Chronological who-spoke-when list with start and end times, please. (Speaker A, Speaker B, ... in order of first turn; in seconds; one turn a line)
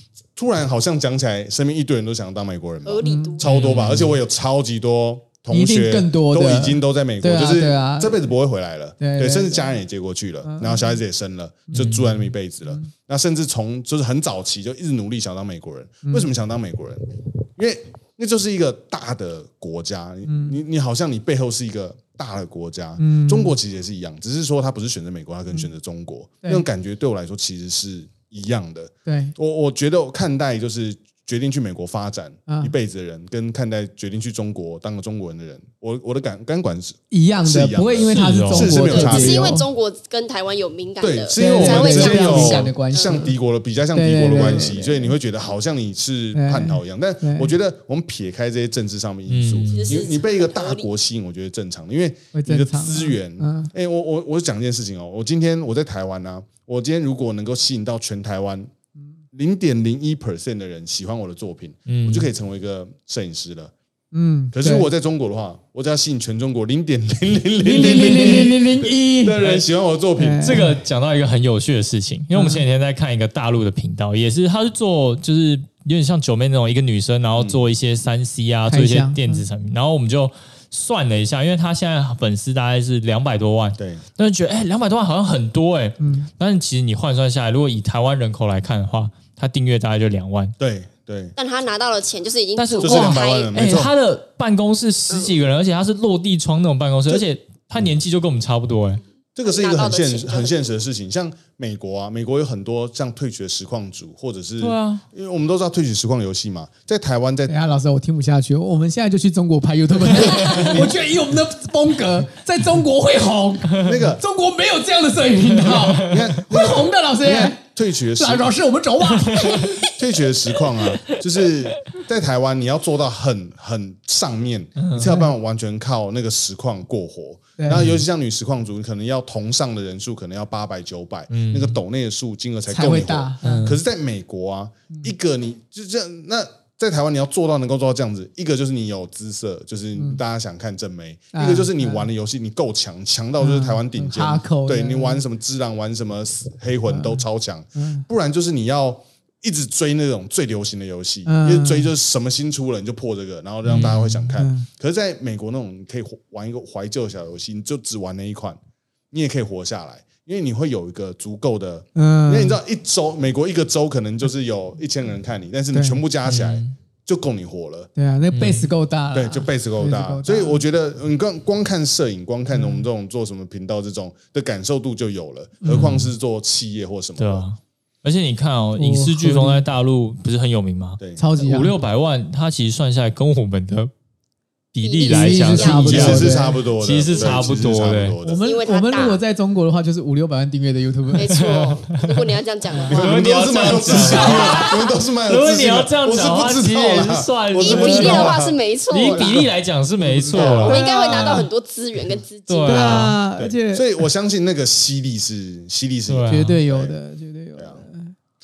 Speaker A: 0.3-39.5
Speaker B: 2.8-3.6
Speaker C: 3.0-3.4
Speaker D: 3.4-4.2
Speaker C: 5.5-8.2
Speaker C: 9.0-9.8
Speaker C: 10.4-10.9
Speaker D: 11.7-12.3
Speaker C: 16.0-16.3
Speaker C: 20.2-20.6
Speaker C: 23.0-23.6
Speaker C: 29.1-29.3
Speaker C: 32.5-32.7
Speaker C: 37.1-39.6
Speaker D: 38.0-38.8
Speaker B: 38.7-43.3
Speaker A: 41.0-58.7
Speaker C: 41.4-43.3
Speaker C: 43.9-45.1
Speaker C: 46.3-47.5
Speaker D: 49.3-50.1
Speaker B: 49.7-50.9
Speaker C: 52.3-53.7
Speaker A: 59.3-63.7
Speaker D: 61.9-62.3
Speaker C: 64.1-64.9
Speaker A: 64.5-68.7
Speaker C: 67.6-69.4
Speaker D: 67.8-68.6
Speaker A: 69.2-70.6
Speaker D: 69.4-69.6
Speaker C: 70.2-70.7
Speaker D: 70.4-90.5
Speaker C: 72.3-72.6
Speaker A: 77.4-77.6
Speaker C: 78.7-79.4
Speaker C: 86.0-86.3
Speaker A: 90.6-91.3
Speaker B: 91.3-93.6
Speaker D: 92.5-99.0
Speaker A: 92.8-93.9
Speaker A: 99.3-107.5
Speaker B: 99.4-100.6
Speaker D: 104.6-105.0
Speaker C: 107.5-117.6
Speaker A: 110.3-110.9
Speaker A: 113.8-114.2
Speaker D: 115.6-116.3
Speaker A: 116.0-118.6
Speaker C: 118.1-119.9
Speaker D: 119.3-119.9
Speaker A: 119.9-158.6
Speaker D: 124.8-125.2
Speaker C: 127.6-127.9
Speaker D: 127.7-128.0
Speaker D: 131.3-131.8
Speaker C: 132.7-133.4
Speaker D: 133.4-133.8
Speaker C: 141.3-142.1
Speaker C: 143.4-145.2
Speaker C: 146.9-147.2
Speaker C: 147.8-148.1
Speaker C: 151.2-151.9
Speaker D: 153.6-154.3
Speaker C: 154.4-154.7
Speaker A: 159.1-167.9
Speaker C: 161.9-162.6
Speaker C: 165.7-166.0
Speaker D: 166.2-166.7
Speaker C: 167.9-170.6
Speaker D: 168.3-168.7
Speaker A: 169.1-177.4
Speaker C: 172.5-172.8
Speaker C: 175.6-175.9
Speaker D: 175.6-176.1
Speaker D: 177.2-183.9
Speaker C: 178.8-179.6
Speaker C: 181.2-181.7
Speaker D: 184.7-188.2
Speaker B: 184.8-186.3
Speaker C: 185.0-186.6
Speaker A: 185.7-188.4
Speaker B: 187.1-187.6
Speaker C: 188.2-191.3
Speaker B: 188.4-189.2
Speaker B: 191.1-193.2
Speaker D: 191.3-192.2
Speaker A: 192.8-199.4
Speaker D: 192.9-201.5
Speaker B: 193.9-194.9
Speaker B: 197.6-199.5
Speaker A: 200.0-200.7
Speaker C: 200.3-201.5
Speaker B: 200.3-203.2
Speaker D: 202.5-203.2
Speaker C: 202.7-203.9
Speaker A: 203.4-206.9
Speaker D: 206.1-206.6
Speaker C: 206.3-208.1